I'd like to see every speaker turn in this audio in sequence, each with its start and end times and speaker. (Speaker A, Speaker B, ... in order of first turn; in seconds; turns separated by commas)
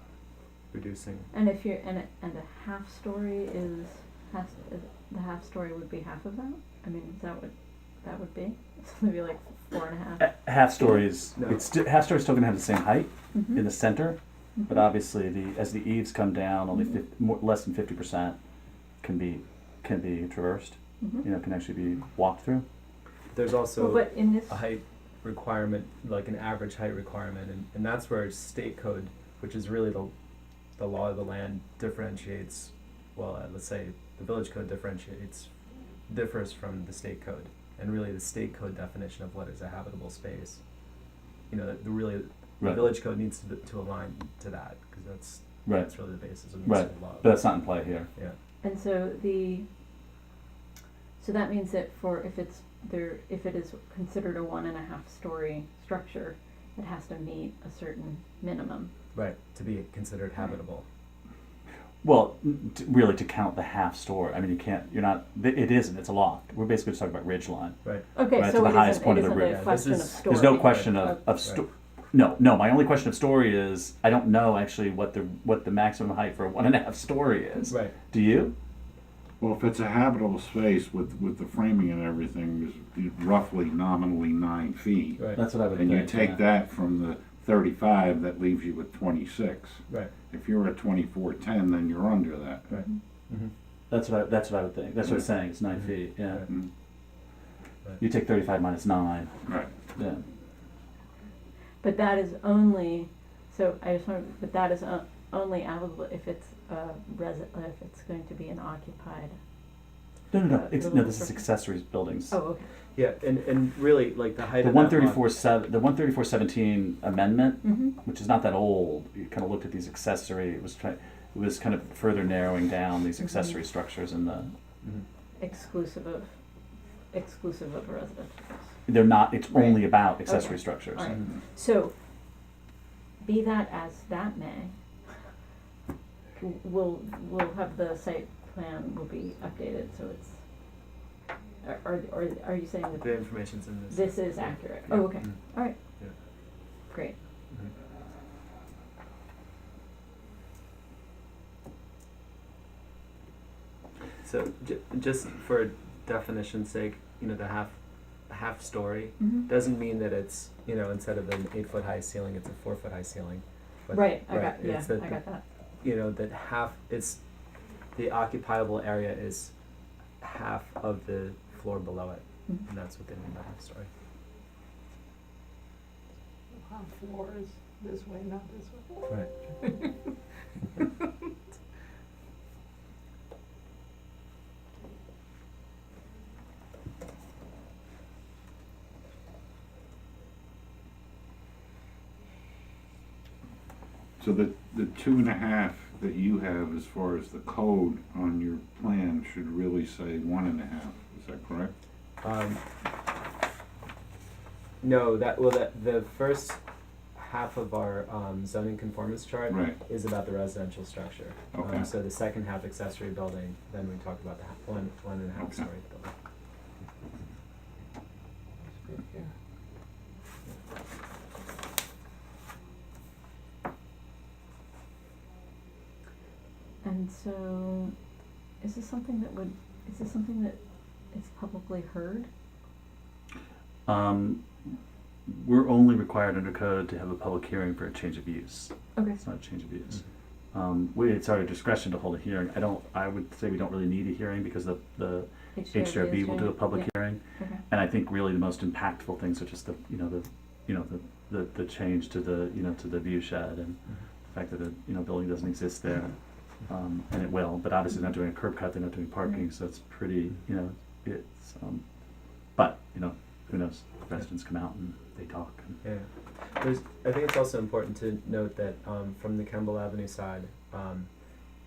Speaker A: 0.7-1.3, Speaker B: 1.3-10.3, Speaker C: 10.2-18.4, Speaker A: 10.9-11.7, Speaker B: 13.3-13.7, Speaker B: 14.6-14.8, Speaker B: 16.7-17.0, Speaker C: 19.0-22.6, Speaker B: 21.0-21.2, Speaker A: 23.3-30.1, Speaker B: 23.8-24.6, Speaker A: 30.8-35.5, Speaker A: 36.1-40.6, Speaker A: 41.5-47.5, Speaker C: 42.6-43.0, Speaker C: 45.6-48.1, Speaker B: 48.6-49.6, Speaker B: 51.2-58.9, Speaker A: 59.1-60.8, Speaker C: 62.0-78.5, Speaker B: 68.1-71.2, Speaker A: 69.5-70.8, Speaker D: 79.4-92.7, Speaker C: 85.3-86.4, Speaker A: 92.7-93.5, Speaker C: 93.9-96.5, Speaker C: 98.0-99.4, Speaker D: 99.5-99.7, Speaker C: 99.9-100.2, Speaker B: 101.8-109.4, Speaker C: 110.3-112.3, Speaker B: 110.4-111.4, Speaker B: 112.3-112.6, Speaker A: 112.9-115.3, Speaker C: 114.6-124.5, Speaker B: 117.6-118.0, Speaker B: 125.4-126.3, Speaker B: 127.1-128.8, Speaker C: 128.9-131.2, Speaker B: 129.5-131.9, Speaker B: 133.2-134.7, Speaker B: 136.4-140.4, Speaker B: 141.6-143.3, Speaker A: 143.0-145.4, Speaker B: 143.9-145.8, Speaker B: 146.9-147.2, Speaker A: 154.2-157.8, Speaker A: 158.3-165.2, Speaker B: 159.2-159.5, Speaker B: 163.9-165.4, Speaker A: 165.8-167.2, Speaker A: 167.9-169.5, Speaker A: 170.2-173.9, Speaker E: 176.6-179.1, Speaker D: 194.2-201.7, Speaker A: 202.2-202.6, Speaker A: 204.8-206.6, Speaker A: 207.2-216.1, Speaker D: 209.5-209.8, Speaker D: 211.5-211.9, Speaker D: 215.4-215.7, Speaker E: 218.8-219.3, Speaker B: 226.8-227.9, Speaker B: 228.6-230.6, Speaker B: 231.1-232.3, Speaker C: 233.9-234.7, Speaker C: 235.3-261.9, Speaker B: 238.9-239.2, Speaker B: 245.6-247.6, Speaker C: 262.4-265.8, Speaker A: 265.8-271.1